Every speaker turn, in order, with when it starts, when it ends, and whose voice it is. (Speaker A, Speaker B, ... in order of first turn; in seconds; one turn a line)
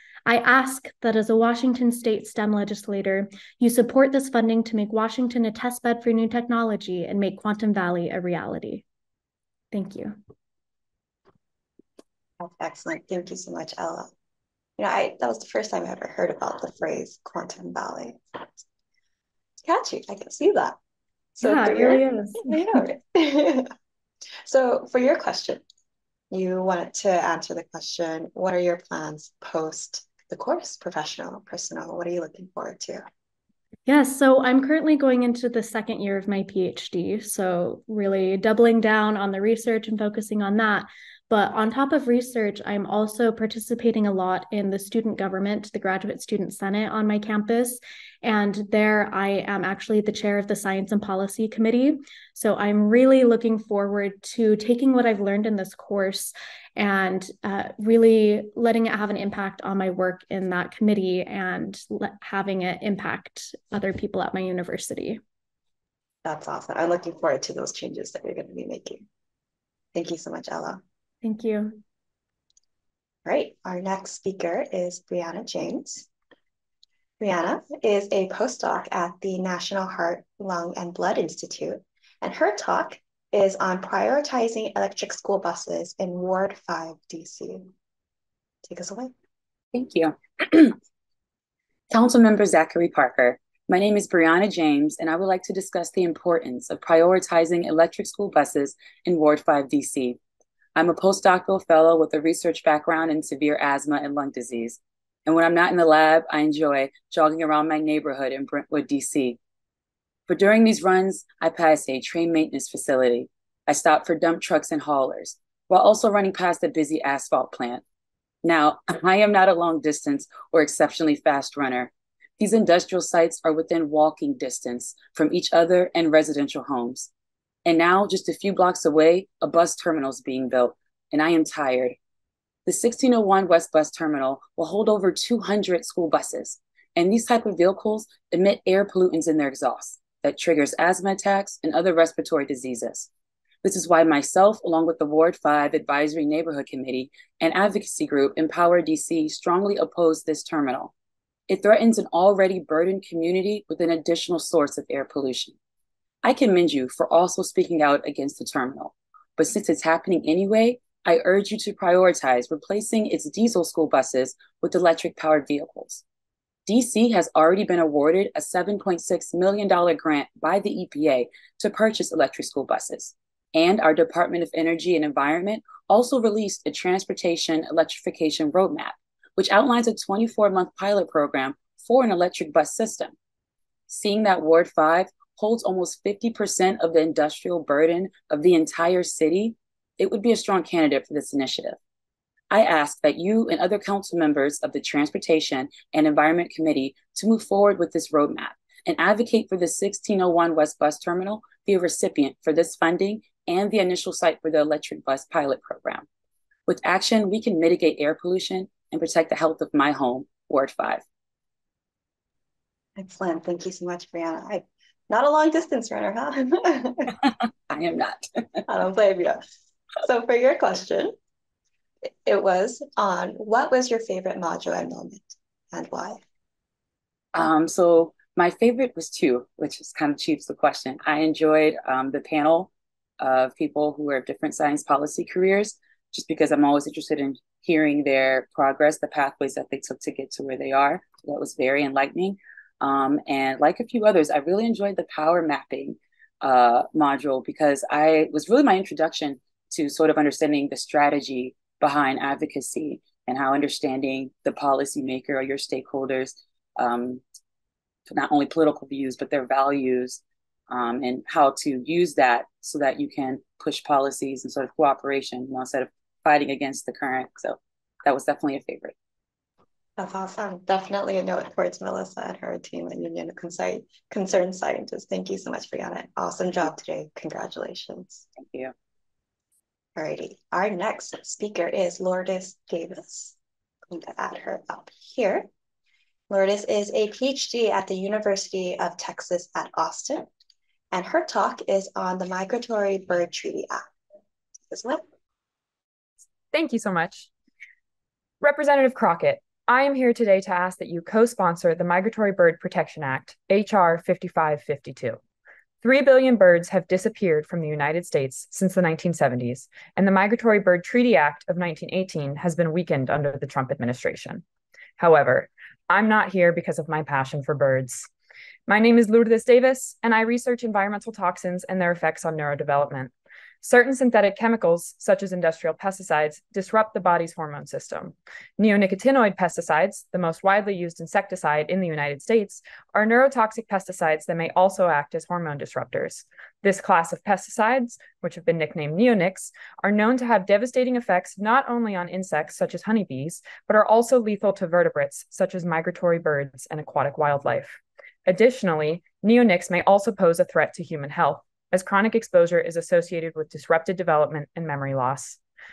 Speaker A: 0.2-8.8
Speaker A: 9.7-10.2
Speaker B: 12.4-14.1
Speaker B: 14.8-18.6
Speaker B: 19.6-20.8
Speaker B: 21.4-23.7
Speaker A: 21.4-22.8
Speaker B: 24.4-25.6
Speaker B: 26.3-33.0
Speaker A: 33.9-65.2
Speaker B: 66.2-69.0
Speaker B: 69.9-70.8
Speaker A: 71.2-71.8
Speaker B: 73.2-76.1
Speaker B: 77.2-87.7
Speaker B: 88.6-89.1
Speaker C: 89.7-90.8
Speaker C: 91.9-100.2
Speaker C: 100.8-109.4
Speaker C: 110.3-117.8
Speaker C: 118.4-127.1
Speaker C: 127.6-132.0
Speaker C: 132.7-143.1
Speaker C: 143.6-150.9
Speaker C: 151.5-155.6
Speaker C: 156.2-166.0
Speaker C: 166.7-183.1
Speaker C: 183.9-191.8
Speaker C: 192.5-206.1
Speaker C: 206.7-211.0
Speaker B: 212.9-217.1
Speaker C: 217.7-218.3
Speaker B: 218.7-219.4
Speaker B: 220.0-221.1
Speaker B: 222.0-226.2
Speaker C: 227.3-257.2
Speaker C: 258.1-268.9
Speaker B: 270.0-278.3
Speaker C: 278.4-278.7
Speaker B: 279.9-283.3
Speaker B: 283.9-285.5
Speaker B: 286.3-290.3
Speaker B: 290.9-293.8
Speaker B: 294.7-295.0
Speaker D: 296.5-297.3
Speaker D: 298.4-305.2
Speaker D: 305.8-314.4
Speaker D: 315.0-318.1
Speaker D: 318.7-355.4